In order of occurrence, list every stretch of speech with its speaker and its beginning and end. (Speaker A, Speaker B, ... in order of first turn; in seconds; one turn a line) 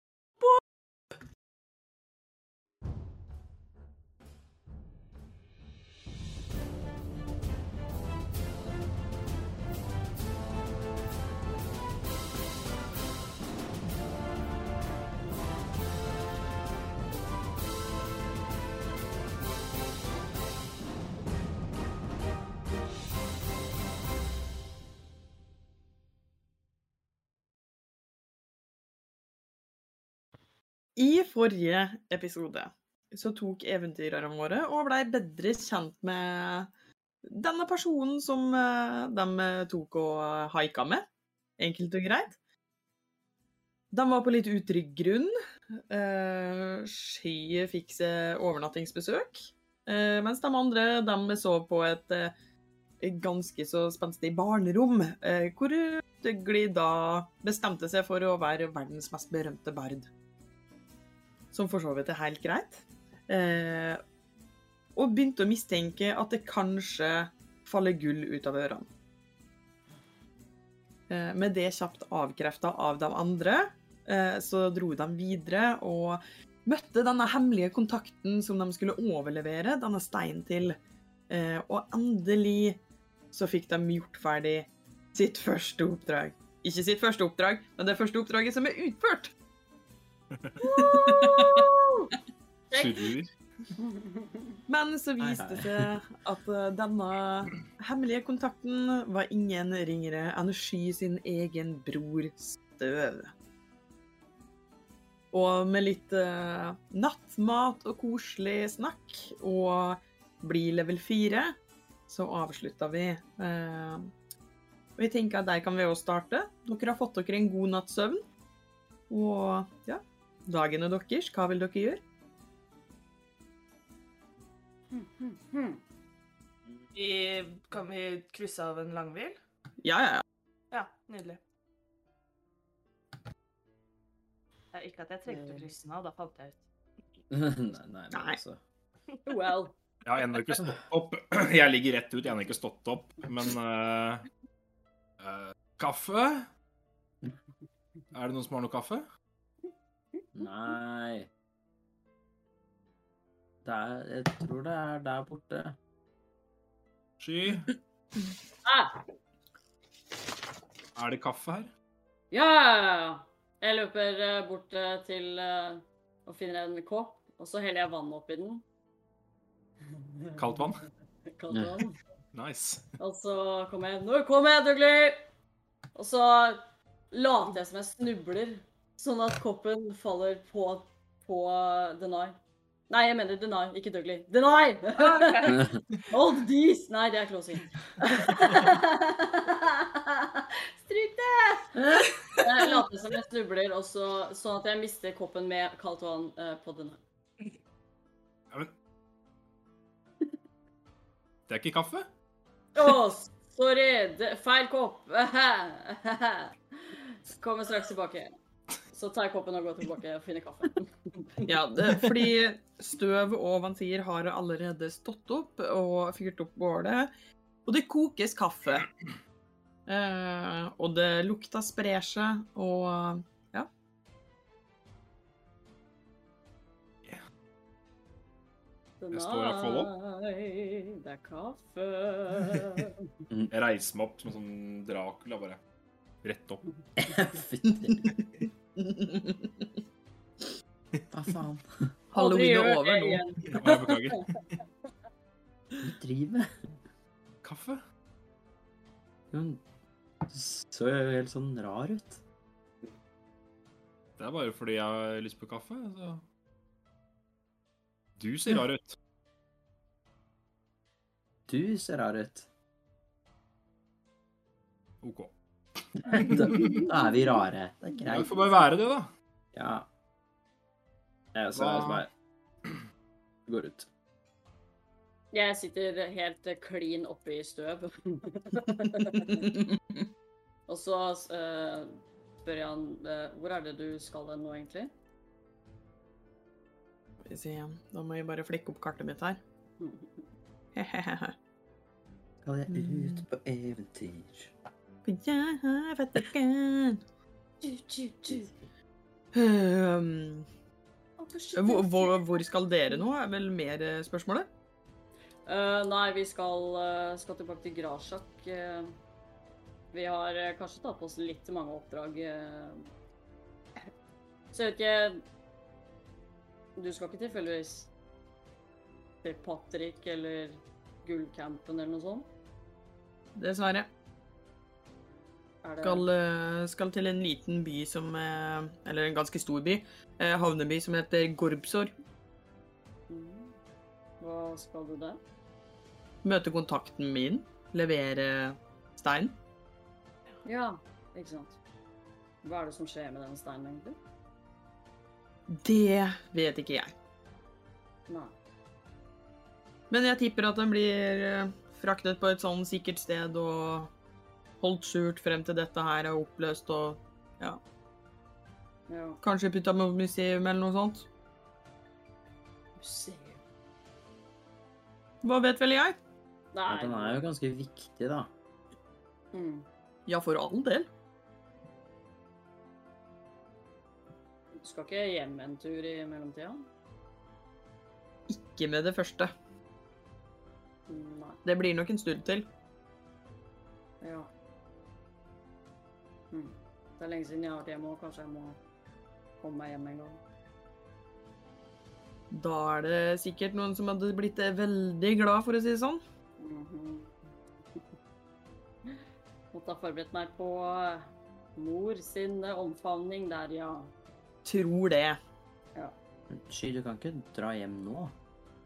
Speaker A: 31.0-36.7
Speaker A: 37.2-41.0
Speaker A: 41.6-42.4
Speaker A: 43.9-45.3
Speaker A: 45.9-52.3
Speaker A: 53.0-60.1
Speaker A: 61.5-64.0
Speaker A: 65.0-68.9
Speaker A: 71.1-80.8
Speaker A: 81.3-82.8
Speaker A: 83.3-89.3
Speaker B: 90.3-90.7
Speaker C: 90.6-92.1
Speaker A: 90.8-91.7
Speaker C: 92.7-93.1
Speaker B: 92.7-93.3
Speaker C: 93.8-94.6
Speaker A: 94.7-103.3
Speaker D: 95.2-95.9
Speaker A: 105.3-111.5
Speaker A: 112.1-114.1
Speaker A: 115.0-118.2
Speaker A: 119.1-122.0
Speaker C: 124.9-125.8
Speaker E: 126.9-129.4
Speaker A: 129.8-130.2
Speaker E: 130.7-131.4
Speaker E: 134.7-136.6
Speaker C: 135.3-135.7
Speaker D: 137.3-138.6
Speaker A: 138.1-138.4
Speaker C: 139.2-139.7
Speaker B: 140.0-144.2
Speaker B: 145.2-146.5
Speaker B: 148.1-149.0
Speaker D: 150.3-151.3
Speaker D: 153.6-155.8
Speaker B: 157.2-157.7
Speaker C: 158.6-159.0
Speaker B: 160.9-161.7
Speaker C: 162.3-168.6
Speaker C: 169.8-170.7
Speaker B: 170.4-170.8
Speaker C: 171.3-172.0
Speaker D: 171.5-171.8
Speaker B: 172.3-172.8
Speaker C: 173.0-175.2
Speaker C: 175.9-182.4
Speaker C: 182.9-197.0
Speaker E: 185.0-185.5
Speaker D: 185.5-185.7
Speaker B: 201.5-202.1
Speaker C: 202.7-208.3
Speaker C: 208.9-211.6
Speaker A: 211.4-217.1
Speaker A: 217.7-218.9
Speaker A: 219.9-223.7
Speaker C: 229.0-233.1
Speaker B: 229.1-229.9
Speaker B: 233.5-235.6
Speaker B: 236.2-236.6
Speaker D: 237.0-238.1
Speaker A: 237.9-238.2
Speaker A: 238.8-239.7
Speaker D: 241.1-241.9
Speaker A: 242.1-243.2
Speaker C: 242.1-244.2
Speaker B: 243.5-244.2
Speaker D: 245.8-246.5
Speaker B: 247.4-247.8
Speaker D: 249.3-249.6
Speaker D: 250.3-252.2
Speaker B: 254.2-256.2
Speaker B: 258.2-259.0
Speaker D: 261.5-262.5
Speaker B: 265.0-265.3
Speaker D: 266.0-268.6
Speaker B: 266.2-266.9
Speaker B: 268.1-269.1
Speaker D: 269.5-269.9
Speaker D: 271.3-272.1
Speaker B: 271.5-272.0
Speaker D: 273.5-273.9
Speaker C: 275.3-279.6
Speaker C: 280.7-284.9
Speaker A: 287.3-289.4
Speaker C: 289.8-290.2
Speaker A: 290.7-291.3
Speaker D: 292.4-294.5
Speaker A: 292.7-293.2
Speaker A: 295.0-297.0
Speaker C: 297.6-298.5
Speaker A: 299.3-300.5
Speaker C: 301.2-302.4
Speaker A: 301.6-304.5
Speaker C: 305.4-308.9
Speaker C: 309.9-312.9
Speaker C: 314.5-315.2
Speaker C: 316.8-317.9
Speaker C: 319.2-322.3
Speaker A: 323.4-323.9
Speaker C: 325.6-326.1
Speaker A: 325.8-331.9
Speaker C: 333.1-333.6
Speaker C: 334.2-335.2
Speaker A: 336.2-339.4
Speaker C: 340.4-341.6
Speaker C: 342.4-344.0
Speaker A: 345.5-346.9
Speaker C: 348.1-348.3
Speaker A: 349.9-353.9
Speaker A: 354.6-357.6
Speaker C: 358.9-359.2
Speaker A: 359.2-361.1
Speaker C: 362.8-363.4
Speaker A: 365.2-365.9
Speaker C: 366.5-367.2
Speaker D: 366.6-368.3
Speaker C: 369.3-369.7
Speaker A: 370.1-370.9
Speaker C: 374.6-376.7
Speaker A: 378.3-379.3
Speaker C: 380.9-381.4
Speaker A: 381.4-382.4
Speaker C: 384.0-384.3
Speaker C: 386.3-388.6
Speaker C: 389.4-390.2
Speaker A: 392.3-396.0
Speaker C: 396.4-397.1
Speaker C: 399.5-403.9
Speaker A: 404.4-405.2
Speaker D: 406.3-408.1